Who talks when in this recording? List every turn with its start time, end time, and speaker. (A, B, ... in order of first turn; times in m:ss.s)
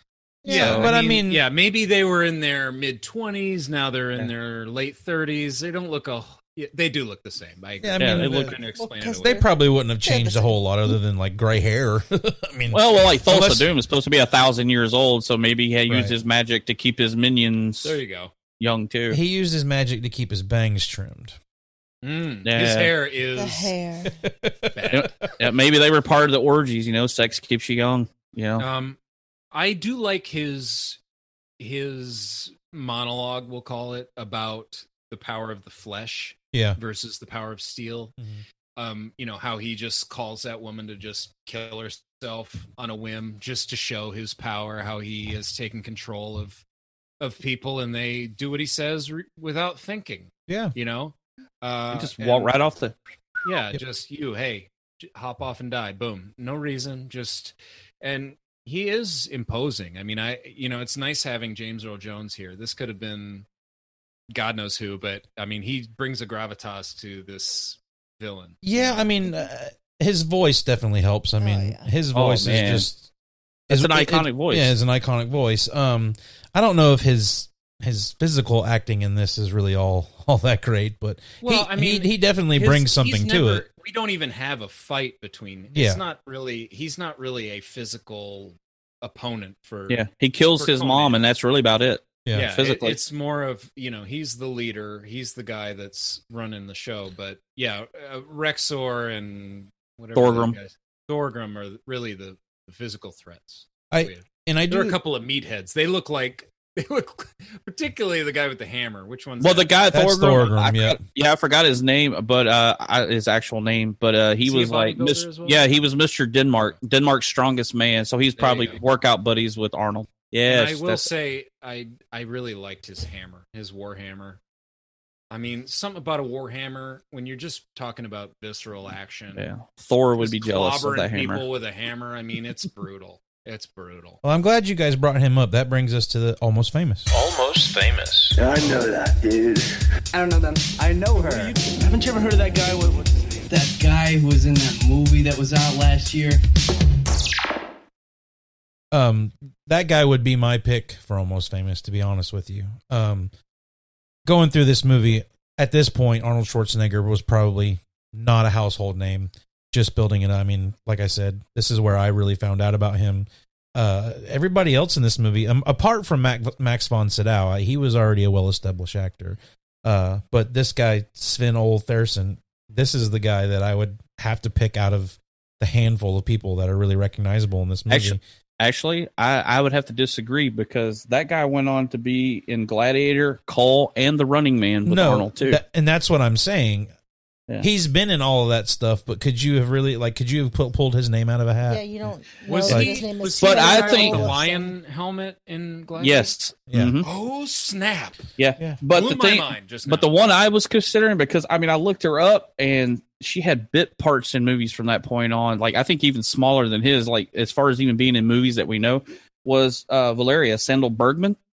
0:00.4-0:01.4 A
0:00.4-0:09.4 B
0:00.5-0:00.9 C
0:07.8-0:08.6 A
0:08.0-0:08.6 C
0:08.7-0:10.9 D
0:09.2-0:13.7 A
0:12.7-0:18.0 C
0:15.9-0:16.1 A
0:17.8-0:18.3 B
0:18.6-0:19.2 C
0:19.1-0:21.4 A
0:22.0-0:23.7 B
0:22.4-0:22.9 C
0:23.4-0:24.2 D
0:24.2-0:25.0 A
0:24.7-0:25.3 B
0:24.9-0:28.6 C
0:28.6-0:29.0 B
0:29.5-0:31.0 B
0:31.6-0:38.1 B
0:36.5-0:36.8 A
0:38.2-0:38.4 A
0:38.8-0:46.6 B
0:47.2-0:52.5 B
0:50.5-0:50.7 A
0:51.9-0:52.9 C
0:53.4-1:03.4 B
1:04.3-1:09.1 B
1:08.6-1:13.1 A
1:11.4-1:11.9 D
1:12.1-1:12.9 C
1:13.7-1:23.6 A
1:13.7-1:14.7 C
1:21.4-1:30.0 B
1:25.7-1:26.0 A
1:29.9-1:33.0 C
1:30.6-1:31.2 B
1:32.2-1:32.5 A
1:32.3-1:49.7 B
1:40.1-1:40.6 C
1:43.9-1:45.0 A
1:49.4-2:01.1 C
1:49.9-1:51.0 A
1:54.4-1:55.7 B
1:58.4-1:58.8 B
2:00.4-2:04.4 B
2:05.3-2:09.4 B
2:09.3-2:11.4 C
2:10.2-2:14.2 B
2:14.2-2:17.1 A
2:17.2-2:26.4 E
2:21.2-2:21.5 B
2:28.9-2:33.3 A
2:34.2-2:58.2 A
2:57.9-3:05.6 C
3:04.8-3:06.9 A
3:07.6-3:12.0 A
3:11.7-3:14.7 D
3:12.5-3:16.3 B
3:12.6-3:13.0 A
3:13.4-3:14.3 C
3:16.0-3:17.0 C
3:16.7-3:17.0 A
3:17.0-3:18.2 B
3:18.4-3:31.4 C
3:18.9-3:20.1 B